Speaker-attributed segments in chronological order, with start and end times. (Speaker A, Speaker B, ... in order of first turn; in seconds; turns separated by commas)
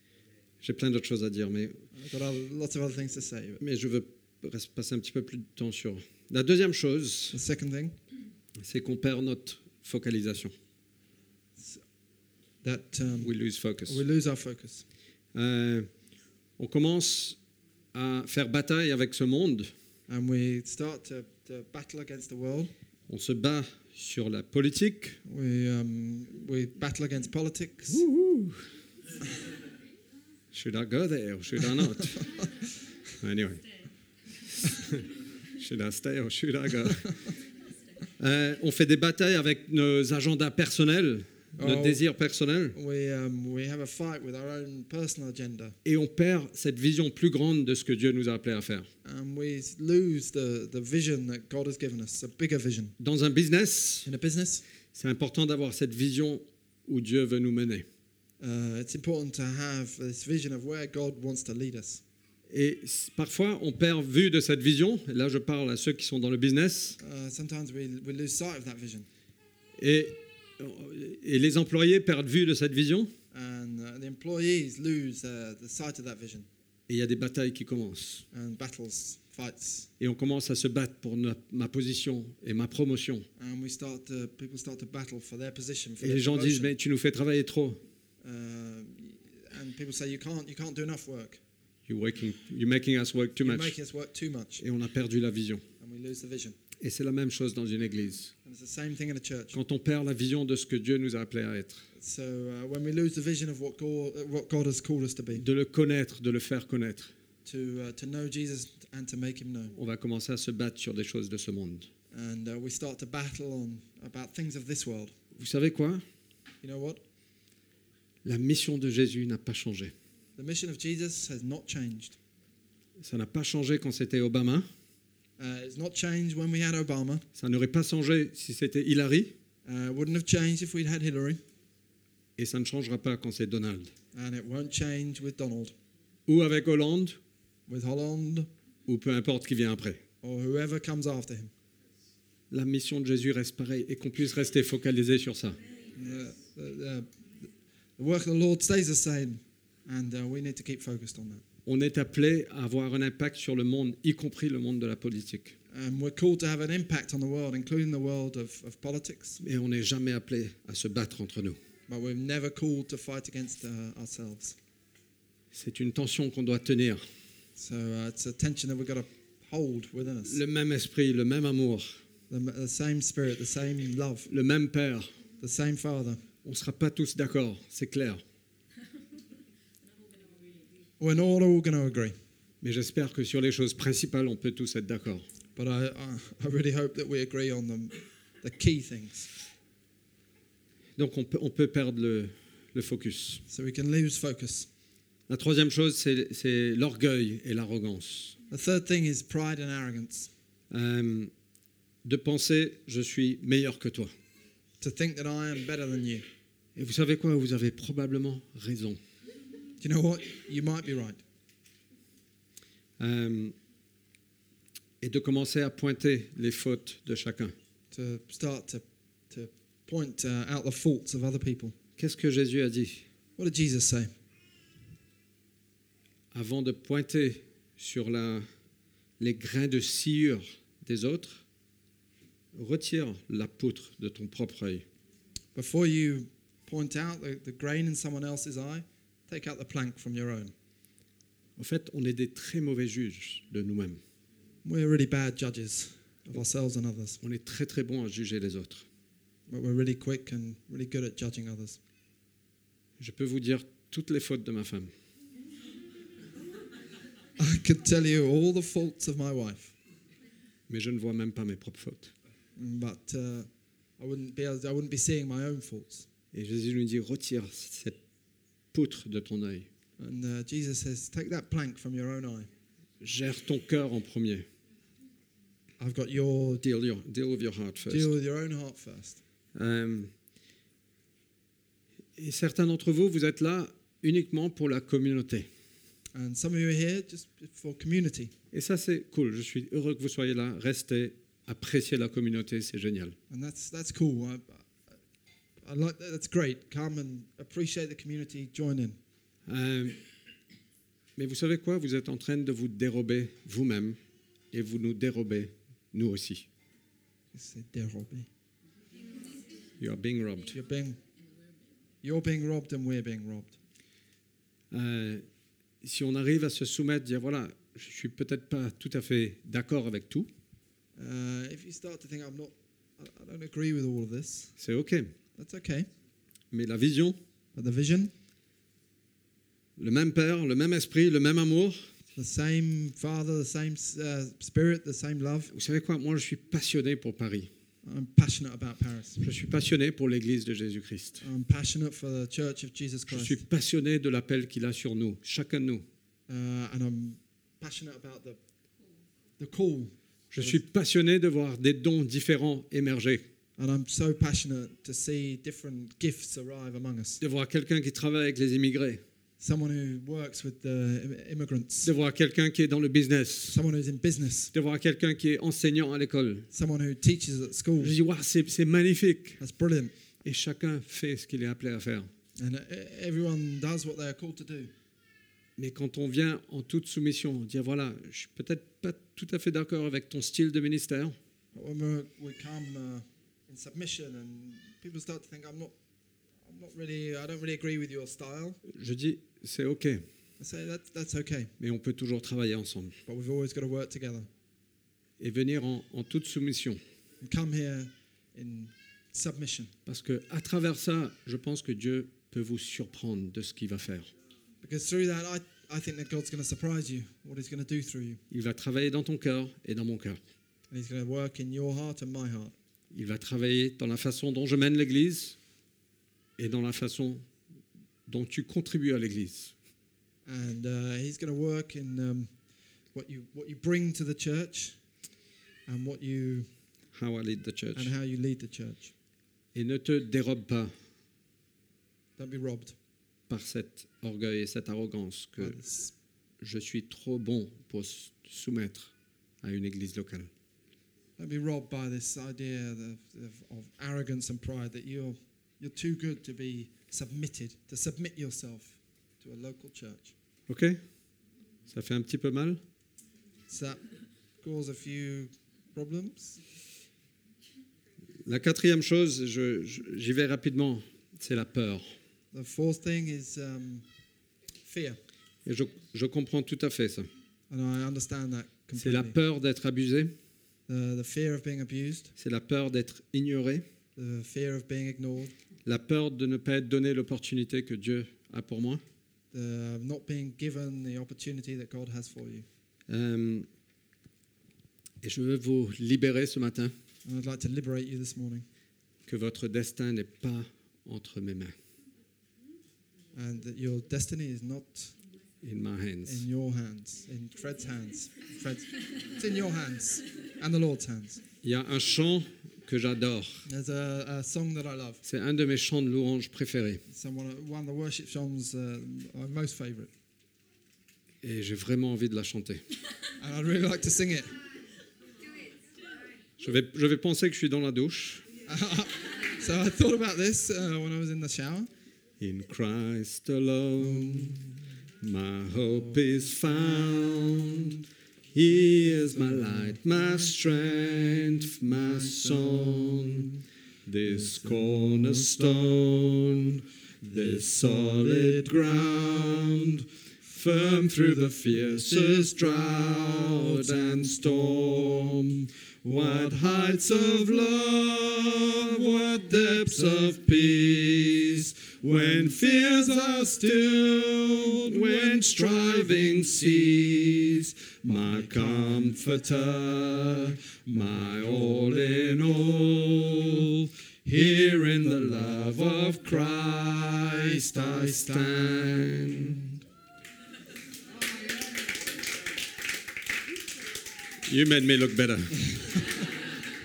Speaker A: 0.6-1.8, Speaker B: 1.9-3.6, Speaker A: 3.6-7.4, Speaker B: 7.3-7.9, Speaker A: 8.6-10.5, Speaker B: 11.6-11.8, Speaker B: 12.6-13.3, Speaker A: 13.2-14.0, Speaker B: 13.9-14.8, Speaker A: 15.3-15.9, Speaker A: 16.6-17.4, Speaker A: 17.9-19.7, Speaker B: 20.1-22.7, Speaker A: 23.1-25.2, Speaker B: 25.2-28.0, Speaker A: 27.9-28.6, Speaker A: 30.5-32.4, Speaker A: 33.2-33.6, Speaker A: 34.5-37.2, Speaker A: 38.2-42.8, Speaker B: 41.6-42.0, Speaker B: 42.7-45.8, Speaker A: 45.8-48.9, Speaker B: 49.0-52.9, Speaker A: 53.0-54.1, Speaker B: 54.0-54.6, Speaker A: 54.9-57.9, Speaker B: 58.4-62.0, Speaker A: 62.5-67.0, Speaker B: 67.0-69.1, Speaker A: 69.8-73.1, Speaker B: 73.3-76.5, Speaker A: 76.9-78.2, Speaker B: 78.3-79.9, Speaker A: 80.0-83.3, Speaker B: 83.4-86.7, Speaker A: 86.0-87.8, Speaker B: 88.2-91.4, Speaker A: 91.9-93.7, Speaker B: 93.4-94.6, Speaker A: 94.6-95.6, Speaker B: 95.8-96.6, Speaker A: 96.8-98.3, Speaker B: 98.4-99.5, Speaker A: 99.5-101.8, Speaker B: 102.0-105.4, Speaker A: 105.3-107.1, Speaker B: 107.4-109.7, Speaker A: 109.7-111.9, Speaker B: 112.1-115.1, Speaker A: 115.3-116.0, Speaker B: 116.6-117.0, Speaker A: 118.2-119.9, Speaker B: 120.4-122.2, Speaker A: 123.0-124.7, Speaker B: 125.4-127.2, Speaker A: 127.3-129.3, Speaker B: 129.6-131.4, Speaker A: 132.4-133.9, Speaker B: 134.1-135.7, Speaker A: 136.3-137.2, Speaker B: 137.7-138.5, Speaker A: 138.9-140.0, Speaker B: 140.2-141.5, Speaker A: 142.5-145.6, Speaker B: 145.9-147.1, Speaker B: 148.0-151.4, Speaker A: 151.7-155.6, Speaker B: 155.7-159.4, Speaker A: 159.4-161.6, Speaker B: 161.9-164.6, Speaker A: 165.5-167.0, Speaker B: 167.6-170.4, Speaker A: 170.2-172.0, Speaker B: 172.3-174.3, Speaker A: 174.3-175.1, Speaker B: 175.4-176.2, Speaker A: 176.4-178.2, Speaker B: 181.0-182.1, Speaker A: 182.6-185.2, Speaker B: 185.6-189.3, Speaker A: 191.0-193.4, Speaker B: 193.5-194.7, Speaker A: 195.3-198.4, Speaker B: 198.5-200.3, Speaker A: 200.7-201.3, Speaker A: 202.0-204.1, Speaker B: 204.8-206.2, Speaker A: 206.8-209.0, Speaker B: 209.8-211.2, Speaker A: 213.0-213.5, Speaker A: 215.0-217.5, Speaker B: 217.9-221.7, Speaker A: 222.0-223.1, Speaker B: 223.4-224.1, Speaker A: 226.3-228.4, Speaker A: 229.2-231.4, Speaker A: 232.5-234.8, Speaker B: 235.5-240.5, Speaker A: 241.6-244.0, Speaker B: 244.6-247.2, Speaker A: 247.2-248.8, Speaker B: 249.5-251.8, Speaker A: 253.0-254.9, Speaker B: 257.4-259.7, Speaker A: 260.7-262.1, Speaker B: 262.6-263.5, Speaker B: 264.0-266.1, Speaker A: 266.3-268.0, Speaker A: 268.7-269.7, Speaker B: 270.0-272.5, Speaker A: 273.0-274.4, Speaker B: 275.8-276.6, Speaker A: 276.6-278.1, Speaker B: 277.9-279.2, Speaker A: 279.5-280.1, Speaker A: 282.2-285.5, Speaker B: 286.1-288.3, Speaker A: 288.5-293.1, Speaker B: 293.3-294.9, Speaker B: 295.6-299.0, Speaker A: 299.5-300.0, Speaker A: 301.2-304.0, Speaker A: 304.5-306.5, Speaker B: 307.3-308.3, Speaker A: 309.8-310.6, Speaker B: 310.5-311.0, Speaker B: 312.0-313.6, Speaker A: 314.7-315.2, Speaker A: 315.8-320.3, Speaker B: 321.0-324.5, Speaker A: 324.6-325.1, Speaker B: 325.4-325.9, Speaker A: 326.5-327.2, Speaker B: 327.5-328.1, Speaker A: 329.8-331.9, Speaker B: 332.1-335.5, Speaker A: 335.5-337.5, Speaker B: 337.8-339.2, Speaker A: 339.2-341.2, Speaker B: 341.2-343.4, Speaker A: 343.1-345.8, Speaker B: 346.3-348.4, Speaker B: 349.4-350.6, Speaker A: 350.3-353.2, Speaker B: 353.6-357.2, Speaker A: 357.2-359.0, Speaker B: 359.4-361.9, Speaker A: 361.8-363.6, Speaker B: 363.5-364.5, Speaker A: 364.5-366.5, Speaker B: 366.5-368.0, Speaker A: 367.8-369.4, Speaker B: 369.4-369.9, Speaker A: 370.2-372.1, Speaker B: 372.4-374.7, Speaker A: 375.6-381.1, Speaker B: 381.5-385.7, Speaker B: 386.4-388.6, Speaker A: 388.6-390.0, Speaker B: 390.4-391.5, Speaker A: 391.6-393.0, Speaker B: 393.1-394.3, Speaker A: 395.2-396.8, Speaker B: 397.2-399.7, Speaker A: 399.9-404.1, Speaker B: 404.6-408.2, Speaker A: 408.3-410.2, Speaker B: 410.7-412.5, Speaker A: 412.9-415.4, Speaker A: 416.4-417.3, Speaker A: 418.1-419.5, Speaker B: 420.2-422.3, Speaker B: 422.9-424.8, Speaker B: 425.7-426.5, Speaker A: 426.9-427.9, Speaker B: 427.7-428.9, Speaker A: 429.5-430.7, Speaker B: 432.2-432.7, Speaker A: 433.3-435.6, Speaker B: 435.4-435.9, Speaker A: 436.4-438.9, Speaker A: 439.4-440.3, Speaker B: 441.2-450.1, Speaker A: 450.5-450.8, Speaker A: 451.7-452.6, Speaker B: 453.5-453.8, Speaker B: 454.4-456.4, Speaker A: 458.2-461.9, Speaker B: 462.3-463.8, Speaker B: 464.6-465.0, Speaker A: 465.4-467.1, Speaker B: 467.5-469.1, Speaker A: 468.8-470.1, Speaker B: 470.7-472.1, Speaker A: 472.2-473.6, Speaker B: 473.9-475.3, Speaker A: 475.6-478.8, Speaker B: 479.3-482.4, Speaker A: 482.9-483.5, Speaker A: 485.0-486.7, Speaker B: 487.0-488.4, Speaker A: 489.1-491.5, Speaker B: 493.1-494.9, Speaker A: 495.4-496.2, Speaker B: 496.1-501.2, Speaker A: 501.4-503.4, Speaker B: 503.4-505.0, Speaker A: 505.0-506.8, Speaker B: 506.9-509.9, Speaker A: 511.2-512.6, Speaker B: 513.2-514.3, Speaker A: 516.4-518.2, Speaker B: 518.5-521.7, Speaker A: 522.2-569.5, Speaker B: 523.8-524.5, Speaker B: 567.6-568.5, Speaker A: 574.2-575.8